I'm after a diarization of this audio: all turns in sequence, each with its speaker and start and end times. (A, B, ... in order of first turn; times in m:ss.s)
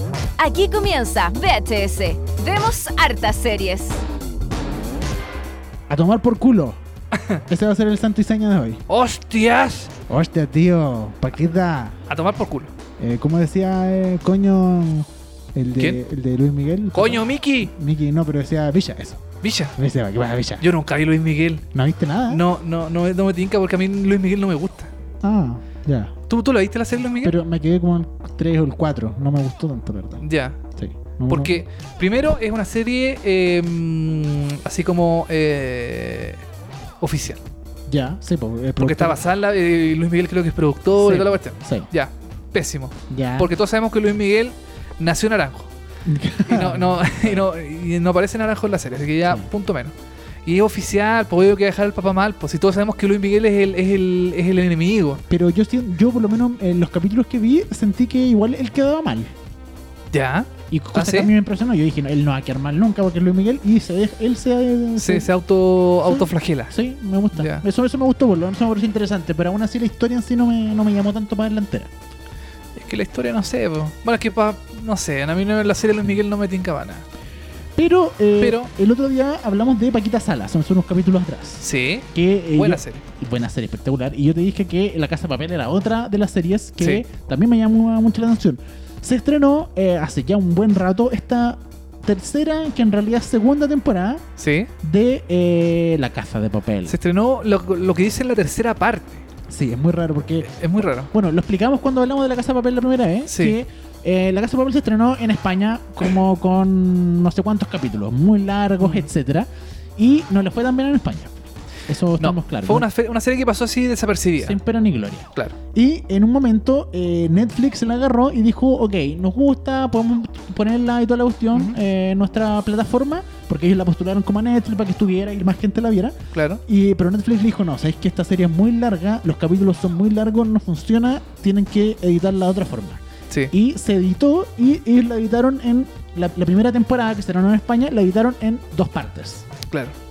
0:00.4-0:04.0 A
0:05.9-0:06.8 B
0:07.5-0:08.8 B
0:08.9-0:09.9 C
0:10.1-0:12.0 B
0:12.1-0:12.7 C
0:13.0-0:19.2 B
0:15.7-0:16.0 C
0:16.9-0:17.7 C
0:19.4-0:19.7 C
0:19.8-0:20.6 B
0:20.6-0:21.6 C
0:21.7-0:22.4 B
0:22.3-0:24.9 C
0:25.2-0:26.1 B
0:26.3-0:27.3 C
0:27.2-0:30.2 B
0:30.2-0:30.6 C
0:30.8-0:31.6 B
0:31.3-0:36.4 C
0:37.0-0:37.4 C
0:37.9-0:39.2 B
0:38.8-0:45.7 C
0:41.0-0:41.9 B
0:43.1-0:43.5 B
0:46.0-0:47.4 B
0:46.5-0:49.9 C
0:50.4-0:55.2 C
0:55.3-0:59.3 B
1:00.1-1:01.3 C
1:00.7-1:05.3 B
1:05.0-1:06.7 C
1:06.0-1:11.9 B
1:07.3-1:07.6 C
1:12.8-1:17.0 C
1:17.8-1:34.2 B
1:18.4-1:18.7 C
1:21.6-1:23.0 C
1:26.8-1:27.0 C
1:34.4-1:34.7 C
1:34.8-1:37.0 B
1:36.9-1:39.2 C
1:39.5-1:40.5 B
1:40.5-1:41.1 C
1:41.1-1:51.3 B
1:43.3-1:43.6 C
1:48.8-1:49.1 C
1:51.9-1:52.9 B
1:52.2-1:54.6 C
1:54.4-2:13.0 B
2:06.3-2:06.6 C
2:13.5-2:19.4 B